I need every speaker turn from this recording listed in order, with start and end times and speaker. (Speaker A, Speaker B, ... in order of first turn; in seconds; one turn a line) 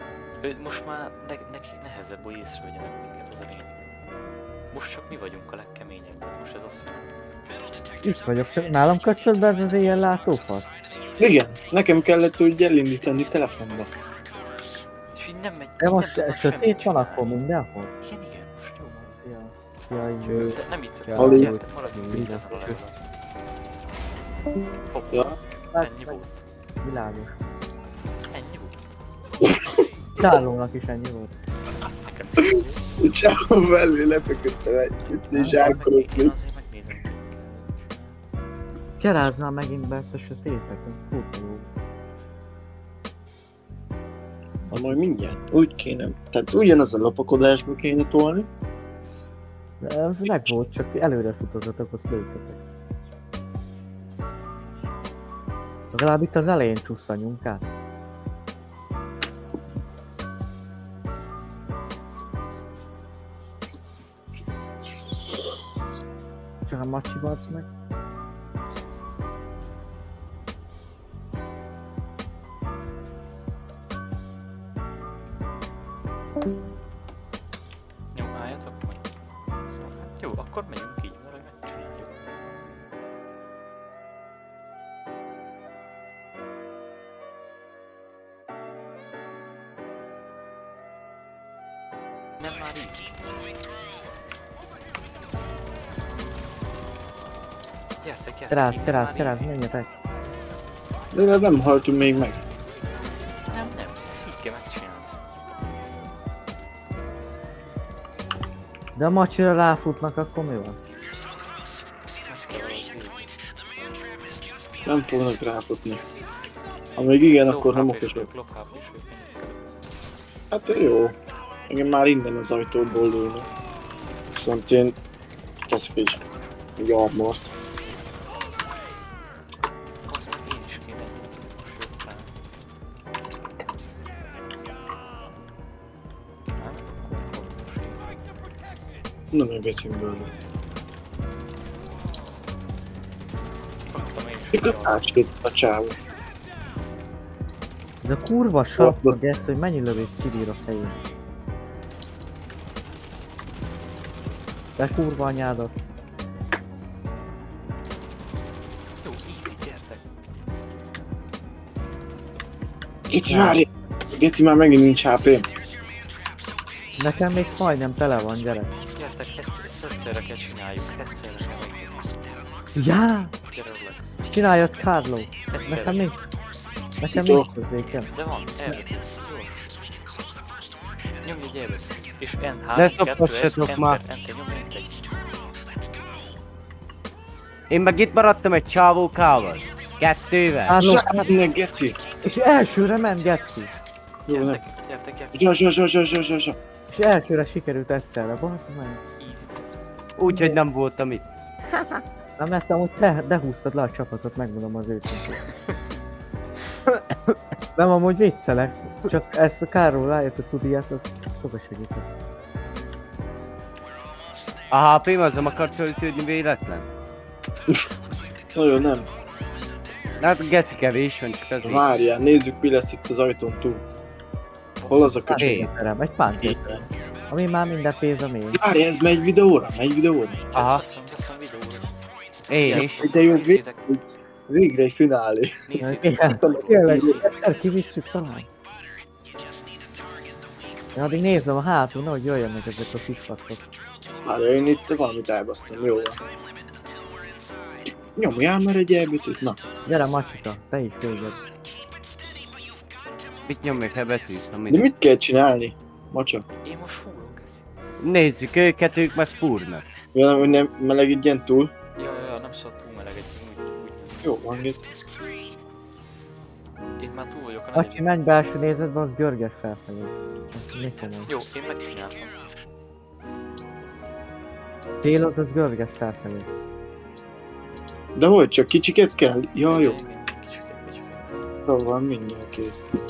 Speaker A: 0.4-3.8
Speaker A: 4.7-7.1
Speaker B: 8.0-10.7
Speaker C: 11.2-13.9
Speaker A: 15.1-17.4
Speaker B: 15.8-17.9
Speaker A: 18.0-19.2
Speaker B: 19.2-20.6
Speaker D: 20.3-20.5
Speaker A: 20.3-22.9
Speaker D: 21.1-21.5
Speaker B: 21.1-22.8
Speaker C: 21.1-21.5
Speaker A: 24.9-26.4
Speaker B: 25.7-26.1
Speaker B: 26.8-27.3
Speaker A: 28.3-29.0
Speaker C: 29.4-29.8
Speaker B: 30.2-31.3
Speaker A: 32.0-33.0
Speaker C: 32.4-36.3
Speaker A: 35.0-38.2
Speaker B: 35.3-35.8
Speaker B: 39.0-41.7
Speaker B: 44.7-45.0
Speaker C: 44.7-48.5
Speaker B: 49.8-52.6
Speaker B: 55.9-57.6
Speaker B: 66.7-67.7
Speaker A: 78.1-79.1
Speaker A: 79.6-82.1
Speaker A: 92.4-93.2
Speaker A: 98.0-99.5
Speaker B: 98.5-99.9
Speaker C: 101.1-102.4
Speaker A: 103.5-105.3
Speaker B: 109.0-110.8
Speaker A: 112.2-113.3
Speaker C: 114.8-116.0
Speaker C: 117.0-118.3
Speaker A: 117.4-119.8
Speaker C: 120.5-121.1
Speaker C: 121.7-123.5
Speaker C: 124.3-125.0
Speaker C: 125.7-126.2
Speaker C: 126.8-127.5
Speaker A: 130.1-132.3
Speaker A: 136.6-138.2
Speaker C: 139.3-140.3
Speaker A: 143.9-145.1
Speaker C: 144.5-146.0
Speaker B: 148.0-151.0
Speaker C: 148.8-149.2
Speaker B: 154.8-155.7
Speaker A: 159.0-160.1
Speaker C: 163.1-165.4
Speaker B: 163.3-163.6
Speaker B: 167.0-168.7
Speaker A: 168.9-172.2
Speaker B: 172.8-173.3
Speaker A: 173.5-174.2
Speaker B: 174.3-176.2
Speaker A: 175.5-176.0
Speaker B: 177.0-178.1
Speaker C: 177.1-177.5
Speaker A: 178.1-179.8
Speaker A: 181.2-185.1
Speaker D: 182.8-184.0
Speaker D: 187.7-190.8
Speaker B: 190.7-191.3
Speaker C: 190.8-191.9
Speaker B: 192.2-193.7
Speaker A: 194.2-195.6
Speaker C: 194.3-194.6
Speaker C: 195.3-196.6
Speaker B: 196.9-199.0
Speaker A: 199.2-199.9
Speaker D: 200.2-201.2
Speaker B: 200.3-200.6
Speaker B: 201.7-205.4
Speaker D: 206.9-207.3
Speaker B: 207.8-212.1
Speaker D: 214.7-216.8
Speaker C: 218.5-219.1
Speaker D: 220.2-221.9
Speaker C: 221.6-223.8
Speaker C: 224.8-225.6
Speaker B: 225.2-228.6
Speaker D: 225.4-225.7
Speaker C: 226.3-226.8
Speaker C: 228.5-230.4
Speaker A: 230.5-233.8
Speaker D: 230.5-230.8
Speaker D: 232.5-233.0
Speaker C: 232.7-235.6
Speaker A: 235.7-237.2
Speaker B: 235.8-238.5
Speaker C: 236.4-237.2
Speaker B: 240.9-243.6
Speaker C: 244.2-246.2
Speaker C: 248.2-249.6
Speaker B: 249.9-251.4
Speaker D: 253.5-254.9
Speaker C: 254.7-256.4
Speaker A: 256.6-257.8
Speaker D: 258.0-259.8
Speaker C: 260.1-261.7
Speaker A: 262.0-264.6
Speaker C: 264.2-264.8
Speaker A: 267.0-268.1
Speaker B: 267.7-271.3
Speaker A: 271.3-272.5
Speaker B: 275.0-276.4
Speaker C: 278.1-280.0
Speaker A: 279.7-281.4
Speaker C: 281.7-282.9